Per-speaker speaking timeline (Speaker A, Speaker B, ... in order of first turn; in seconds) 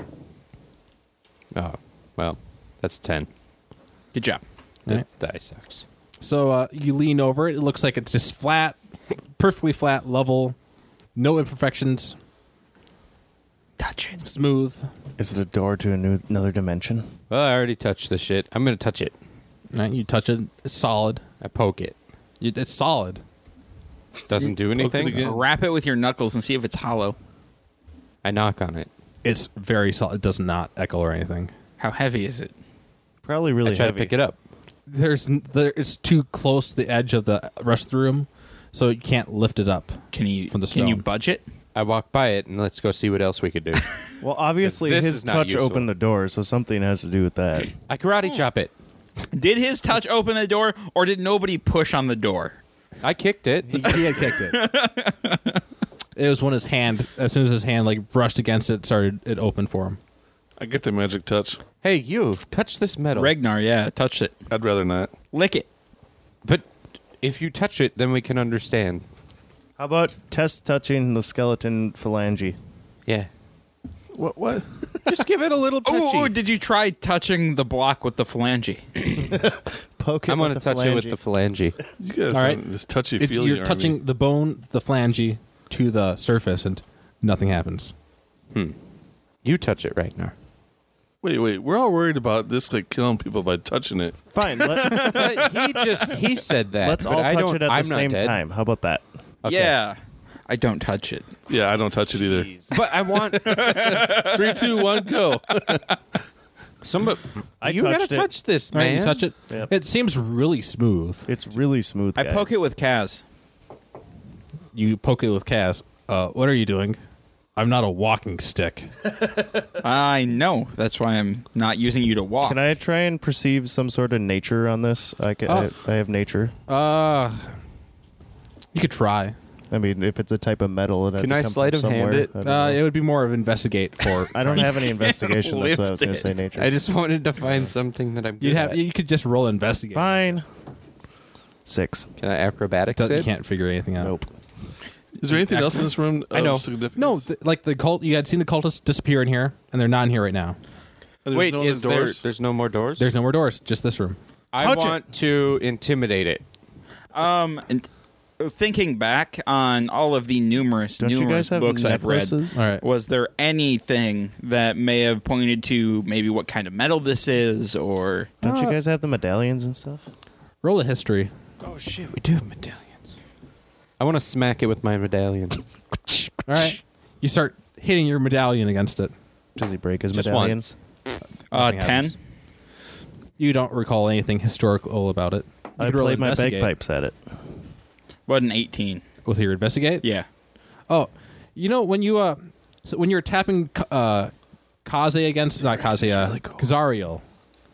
Speaker A: 1.5-3.3, 4.9-5.8, 17.3-19.1, 21.4-21.9, 24.3-25.2, 28.2-28.9, 33.6-34.4, 41.7-43.9, 44.6-45.9, 47.9-48.7, 53.0-54.0, 61.8-63.3, 67.2-69.0, 75.0-76.3, 80.3-81.8, 89.4-90.3, 94.9-98.4, 99.4-99.7, 102.7-104.0, 106.8-109.2, 131.2-132.3, 136.5-138.8, 142.2-143.3, 146.3-146.7, 151.3-153.1, 154.5-156.4, 171.6-173.0, 174.0-175.6, 180.1-180.7
Speaker B: 4.1-4.4, 13.8-14.2, 25.1-27.1, 31.8-32.5, 40.1-41.4, 49.3-52.6, 53.9-55.6, 63.1-64.3, 65.3-65.7, 75.8-79.3, 94.6-96.2, 99.4-101.4, 103.3-105.8, 112.2-113.2, 119.8-122.6, 134.5-136.3, 157.1-157.9, 158.4-168.3, 181.5-182.1, 188.3-189.0
Speaker C: 6.2-8.8, 9.4-10.6, 11.2-12.1, 14.2-14.9, 19.7-21.2, 22.4-23.2, 29.2-31.5, 34.9-41.0, 53.7-54.6, 56.1-60.0, 82.3-82.6, 83.2-87.9, 108.7-111.3, 114.7-117.0, 117.5-118.9, 126.7-127.5, 128.7-129.3, 132.4-134.7, 138.4-140.4, 142.9-144.1, 145.2-145.9, 146.9-150.6, 153.0-154.2, 162.5-162.8, 168.4-168.8, 170.6-171.3, 176.4-179.1, 181.5-182.1, 183.4-186.7, 189.2-190.0, 190.9-194.3, 194.8-197.2
Speaker D: 15.2-17.1, 33.2-34.1, 44.2-47.7, 69.8-72.6, 79.2-81.2, 94.3-95.4, 96.8-99.0, 102.2-102.7, 107.6-108.3, 111.3-112.6, 122.4-126.5, 129.7-132.8, 134.3-136.8, 139.9-140.4, 141.6-142.1, 144.0-144.3, 154.6-155.0, 161.0-162.6, 168.4-170.1, 179.6-180.7, 185.8-187.2, 195.6-196.7
Speaker E: 24.7-25.4, 60.6-61.6, 64.5-65.1, 74.1-74.7, 82.0-84.0, 91.2-94.2, 101.5-102.5, 103.6-105.8, 145.2-147.2, 151.2-152.2